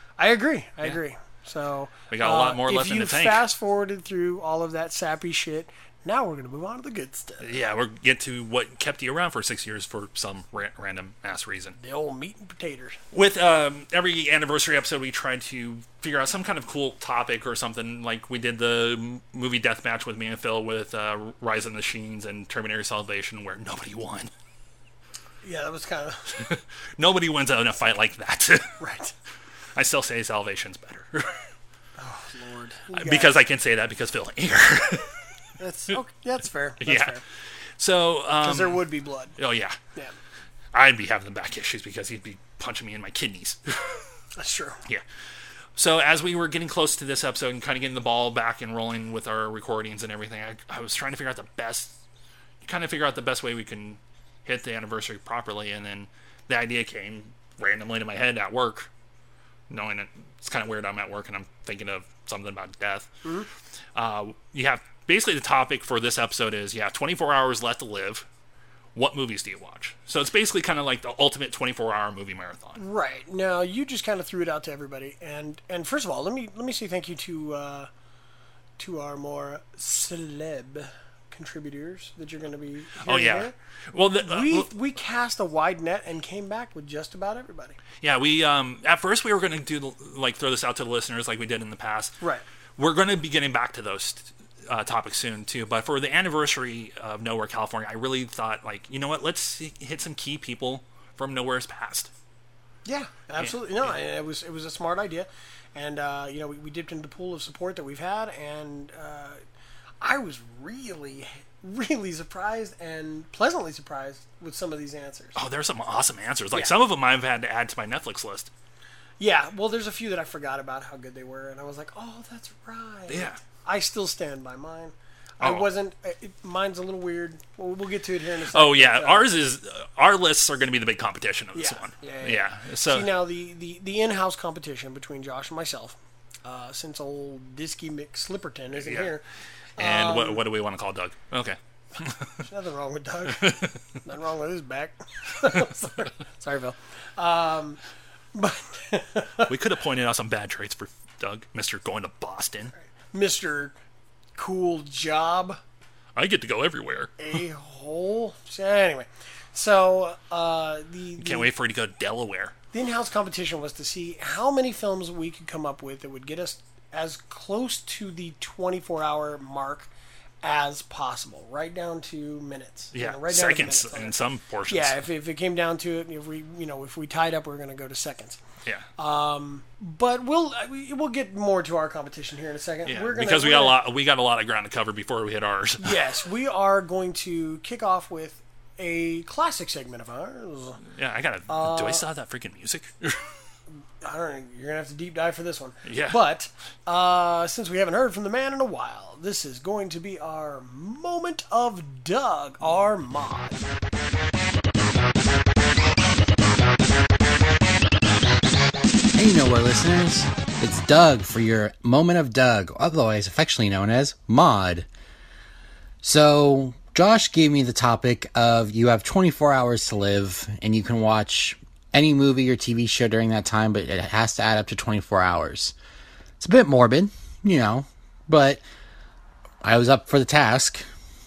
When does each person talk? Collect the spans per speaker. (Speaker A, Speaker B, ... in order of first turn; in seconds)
Speaker A: 0.2-7.5, 11.8-13.0, 25.4-26.3, 28.8-29.1, 32.0-33.4, 35.6-37.2, 38.4-39.4, 44.4-44.8, 72.8-77.9, 78.8-83.5, 84.2-87.8, 102.8-109.4, 110.0-115.4, 119.2-129.3, 131.6-139.2, 139.8-140.4, 142.4-147.8, 148.3-149.5, 153.1-153.7, 154.4-155.6, 157.2-161.5, 162.7-169.9, 170.4-174.2, 174.7-178.4, 179.0-183.8, 185.8-190.8, 191.5-192.0, 194.0-203.7
Speaker B: 2.1-3.4, 7.4-11.8, 13.1-24.3, 26.3-28.7, 29.8-31.4, 33.0-35.1, 36.8-37.2, 37.8-38.8, 39.4-39.8, 40.7-44.0, 45.8-52.0, 52.6-58.9, 59.7-63.1, 64.0-68.3, 69.0-72.8, 83.0-84.7, 88.0-92.2, 92.8-102.1, 115.4-118.5, 123.1-123.4, 125.4-125.7, 128.5-133.1, 138.8-139.1, 139.8-142.4, 143.4-143.7, 149.5-152.7, 156.2-157.2, 161.2-162.5, 172.9-175.0, 182.9-186.0, 190.9-193.2, 195.9-196.2
Speaker C: 209.1-214.9, 216.0-225.8, 226.4-228.6, 229.6-230.9